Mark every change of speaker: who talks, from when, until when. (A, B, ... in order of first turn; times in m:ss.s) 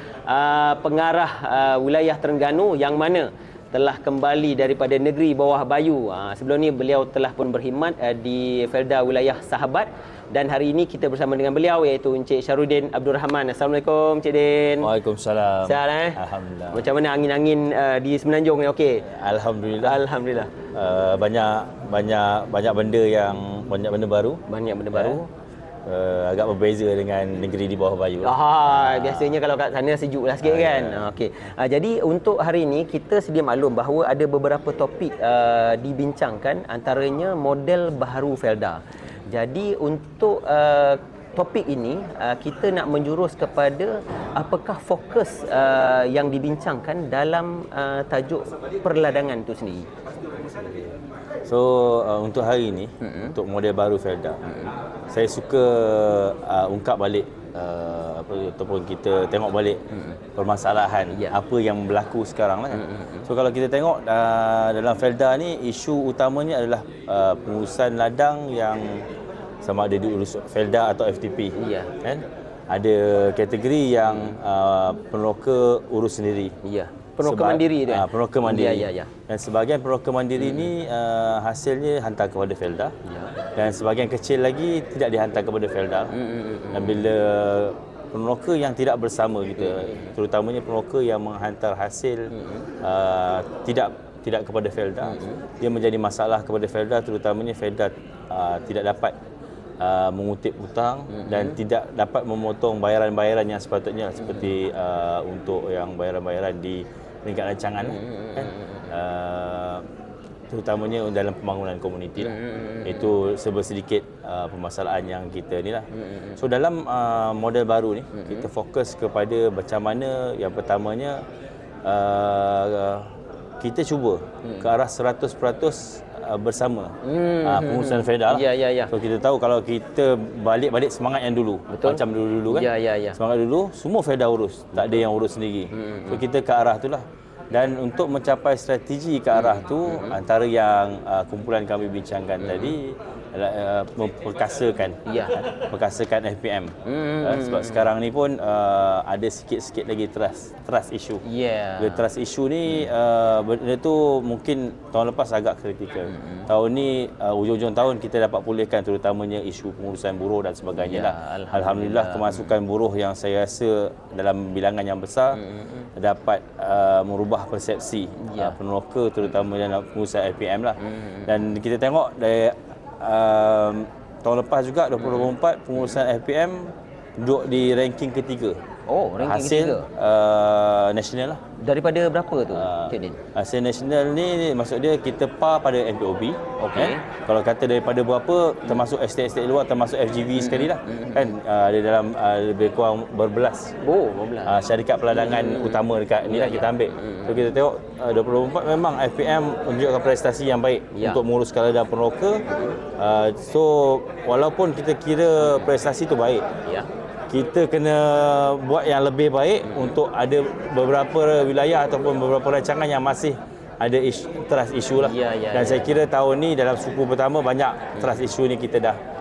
0:00.3-0:14.9 A
0:14.8-0:16.9 B
0:15.6-0:19.1 A
0:19.0-0:20.0 B
0:19.7-0:20.5 A
0:20.7-0:24.4 B
0:24.5-0:25.3 A
0:24.9-0:25.2 B
0:25.8-0:29.4 B
0:28.2-0:49.9 A
0:30.4-0:31.1 B
0:51.4-0:54.4 B
0:53.0-0:53.4 A
0:54.5-0:54.7 A
0:55.1-1:09.1 B
0:59.9-1:00.2 A
1:02.7-1:03.3 A
1:09.6-1:16.6 B
1:11.6-1:11.9 A
1:14.1-1:14.4 A
1:16.6-1:19.1 A
1:17.2-1:22.9 B
1:20.4-1:20.7 A
1:23.1-1:23.4 A
1:23.6-1:26.2 B
1:26.1-1:27.0 A
1:26.7-1:39.2 B
1:29.6-1:30.1 A
1:32.3-1:32.7 A
1:35.0-1:35.4 A
1:39.8-1:49.9 B
1:41.1-1:41.6 A
1:44.2-1:44.5 A
1:47.8-1:48.9 A
1:50.5-2:01.2 B
1:52.2-1:53.2 A
1:56.0-1:56.4 A
1:58.1-1:58.5 A
2:01.8-2:31.2 B
2:04.4-2:04.7 A
2:07.0-2:08.9 A
2:11.7-2:13.2 A
2:15.7-2:16.2 A
2:19.3-2:20.2 A
2:22.4-2:22.8 A
2:25.0-2:25.4 A
2:26.8-2:27.9 A
2:31.2-2:32.1 A
2:31.8-2:45.4 B
2:36.1-2:36.5 A
2:40.8-2:42.6 A
2:45.3-2:45.9 A
2:46.0-2:58.6 B
2:48.2-2:48.6 A
2:50.8-2:51.3 A
2:55.0-2:55.3 A
2:58.9-2:59.9 A
2:59.2-3:01.4 B
3:01.6-3:03.2 A
3:02.5-3:13.8 B
3:06.6-3:07.0 A
3:10.4-3:11.3 A
3:13.8-3:14.6 A
3:14.5-3:22.4 B
3:15.1-3:17.5 A
3:20.9-3:21.2 A
3:22.5-3:22.8 A
3:23.0-3:26.5 B
3:27.3-3:39.0 B
3:29.6-3:30.0 A
3:35.0-3:36.0 A
3:38.0-3:38.2 A